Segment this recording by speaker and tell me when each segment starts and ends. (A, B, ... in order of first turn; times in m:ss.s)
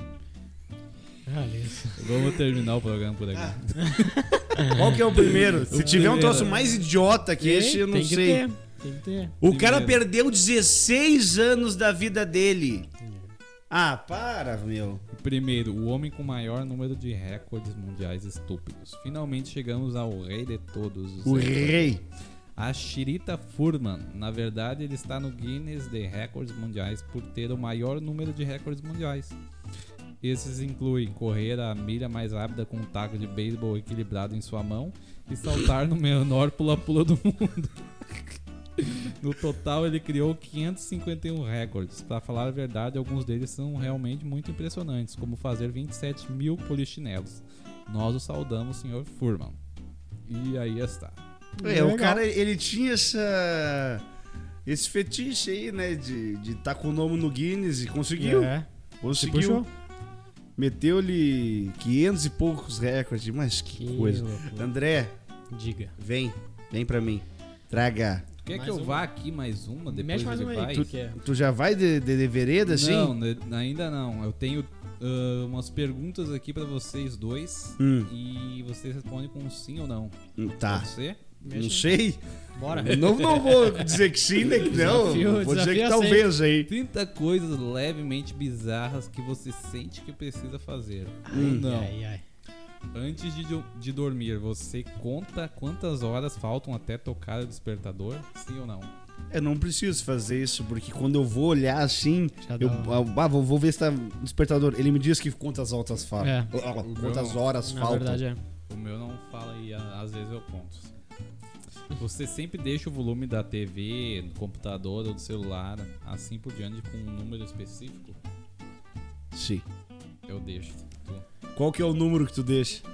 0:01.2-0:02.1 A
0:02.0-0:04.7 B
0:03.8-0:06.8 A
0:04.7-0:08.4 C
0:05.7-0:06.7 B
0:07.4-0:09.4 A
0:09.4-0:12.9 C
0:09.4-0:10.0 B
0:13.0-0:13.3 A
0:13.7-0:15.0 C
0:15.1-0:21.9 B
0:21.2-0:22.0 C
0:22.6-0:29.3 B
0:30.2-0:49.6 B
0:50.3-0:51.2 B
0:51.6-0:52.2 A
0:51.6-0:54.0 C
0:54.6-0:59.6 C
0:58.2-0:59.7 A
1:00.6-1:05.1 C
1:03.8-1:04.7 A
1:05.5-1:06.0 A
1:06.0-1:08.3 C
1:08.4-1:10.9 B
1:08.5-1:09.0 A
1:09.9-1:11.2 A
1:11.2-1:13.1 C
1:12.6-1:21.2 B
1:17.8-1:18.1 C
1:20.4-1:20.9 C
1:21.4-1:21.9 A
1:21.5-1:26.7 C
1:22.6-1:23.2 A
1:22.8-1:24.0 B
1:24.6-1:26.3 A
1:26.7-1:31.9 B
1:31.2-1:32.2 A
1:31.3-1:31.7 C
1:32.9-1:38.9 B
1:39.3-1:48.2 C
1:42.4-1:43.0 A
1:46.2-1:46.5 A
1:46.8-1:47.4 B
1:47.6-1:48.4 A
1:48.7-1:50.9 B
1:52.0-1:58.2 B
1:59.3-1:59.6 C
2:00.3-2:01.2 B
2:01.6-2:02.8 C